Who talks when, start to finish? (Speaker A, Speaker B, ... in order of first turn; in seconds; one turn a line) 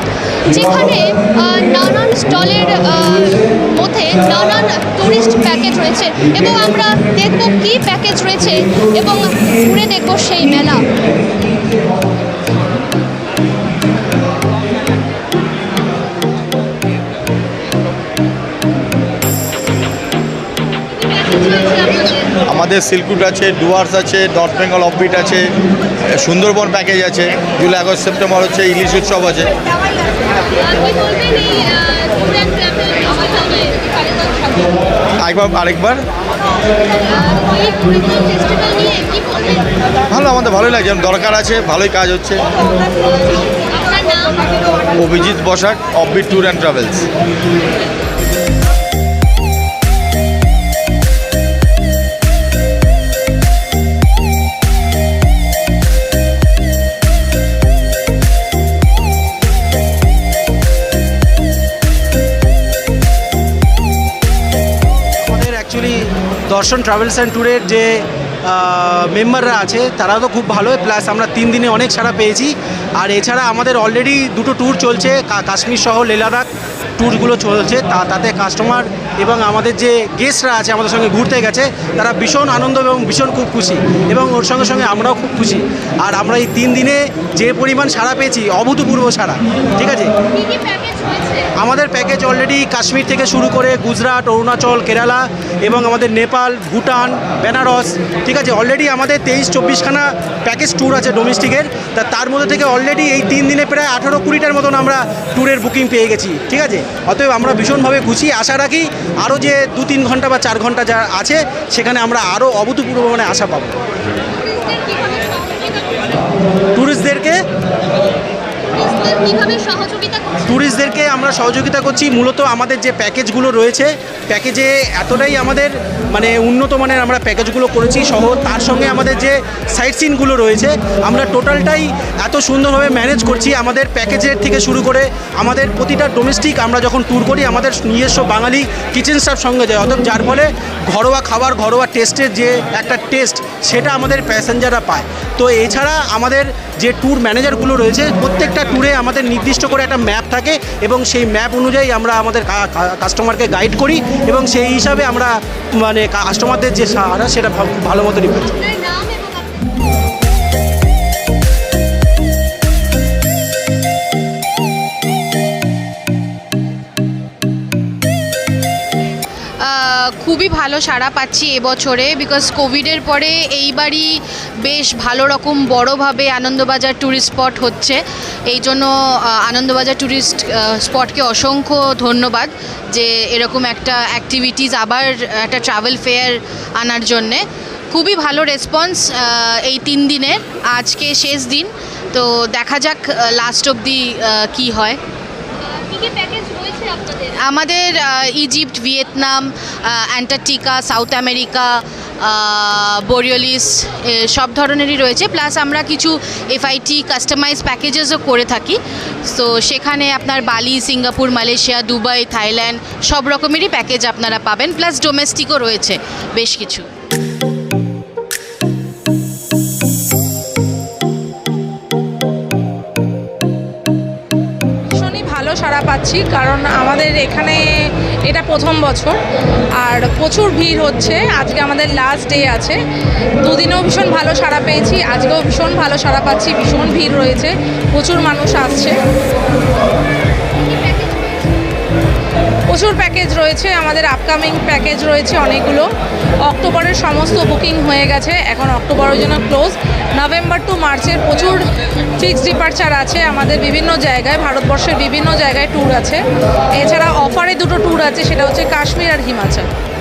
Speaker A: 0.5-10.8
Speaker A: 20.9-22.3
Speaker B: 22.5-25.5
Speaker B: 26.1-29.5
Speaker A: 29.9-34.7
Speaker B: 35.2-36.0
Speaker A: 36.9-39.7
Speaker B: 40.1-42.4
Speaker A: 43.6-44.8
Speaker B: 45.0-47.1
Speaker C: 65.2-76.5
Speaker C: 77.0-90.1
Speaker A: 90.3-91.5
Speaker C: 91.6-113.7
Speaker A: 114.4-116.1
Speaker C: 116.7-117.4
Speaker A: 118.7-120.4
Speaker C: 120.4-158.5
Speaker A: 158.4-159.7
Speaker D: 169.6-195.0
Speaker A: 195.6-197.3
Speaker D: 197.5-216.8
Speaker E: 224.9-229.2
Speaker E: 229.8-232.8
Speaker E: 233.4-239.0
Speaker A: 240.7-241.4
Speaker E: 242.7-245.9
Speaker E: 246.4-256.2
Speaker E: 256.8-259.7